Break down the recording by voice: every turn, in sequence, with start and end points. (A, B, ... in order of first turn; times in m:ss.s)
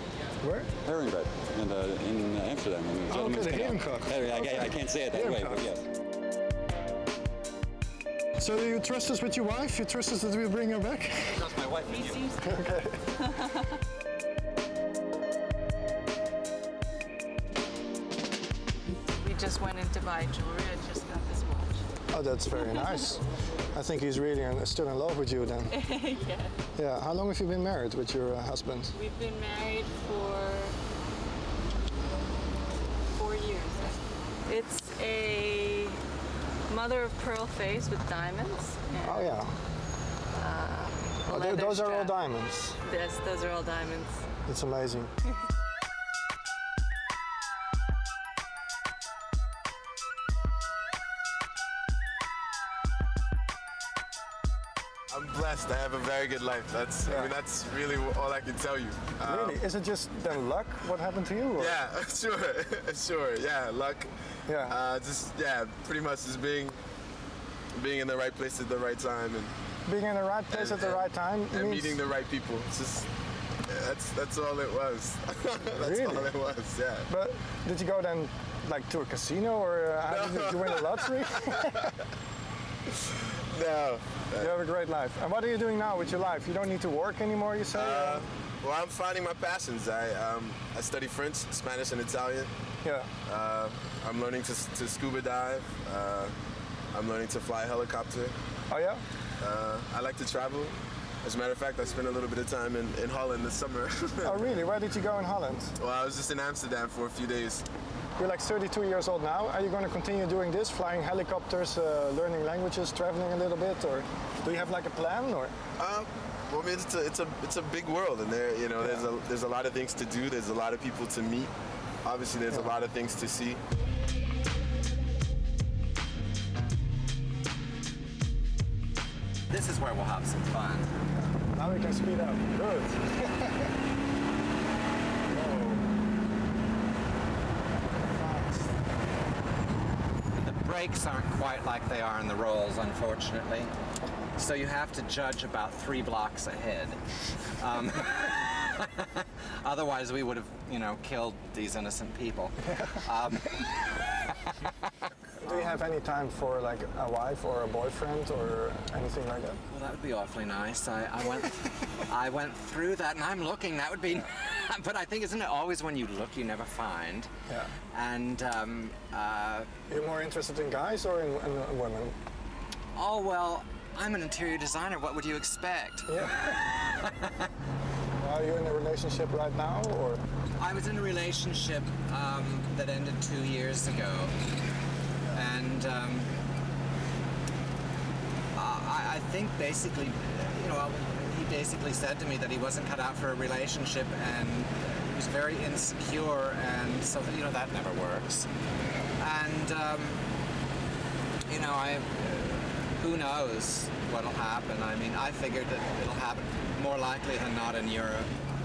0:00.4-0:00.7 A
0:00.8-0:05.8 B
0:03.1-0:05.7 A
0:08.4-0:11.4 A
0:11.4-0:12.1 B
0:11.8-0:12.6 C
0:12.4-0:13.0 A
0:13.2-0:13.8 C
0:19.2-0:21.8 C
0:22.1-0:25.8 A
0:22.6-0:23.2 C
0:25.7-0:26.5 C
0:26.8-0:28.9 A
0:28.9-0:30.8 C
0:33.1-0:36.0 C
0:36.7-0:39.2 C
0:39.0-0:39.5 A
0:40.3-0:42.2 C
0:41.3-0:42.8 A
0:42.8-0:44.2 C
0:44.5-0:45.1 A
0:55.1-0:59.6 D
0:57.0-0:57.3 A
0:59.2-1:01.8 A
1:01.6-1:06.8 D
1:04.5-1:04.8 A
1:07.7-1:09.5 D
1:09.8-1:12.0 A
1:10.5-1:13.1 D
1:13.6-1:17.1 D
1:15.7-1:16.3 A
1:17.1-1:21.9 A
1:20.1-1:21.9 D
1:22.9-1:24.5 D
1:24.4-1:28.3 A
1:27.7-1:32.5 D
1:32.8-1:33.1 A
1:33.2-1:36.4 D
1:36.9-1:38.3 D
1:38.7-1:39.0 A
1:39.4-1:44.5 D
1:44.2-1:45.8 A
1:45.8-1:47.6 D
1:48.2-1:55.6 A
1:55.8-2:01.5 D
1:58.8-1:59.1 A
2:02.0-2:03.6 D
2:09.5-2:10.9 E
2:11.1-2:13.8 A
2:15.3-2:15.8 A
2:18.0-2:18.6 A
2:20.3-2:23.7 E
2:24.4-2:34.6 E
2:32.6-2:33.0 A
2:35.4-2:39.6 A
2:39.7-2:47.3 E
2:47.5-2:47.7 A
2:47.9-2:49.7 E
2:49.9-2:52.2 A
2:52.9-2:57.5 E
2:56.1-2:56.6 A
2:58.2-3:00.2 A
3:00.6-3:04.3 E
3:05.3-3:06.3 E
3:08.5-3:18.5 E
3:19.2-3:20.2 E
3:21.5-3:28.3 E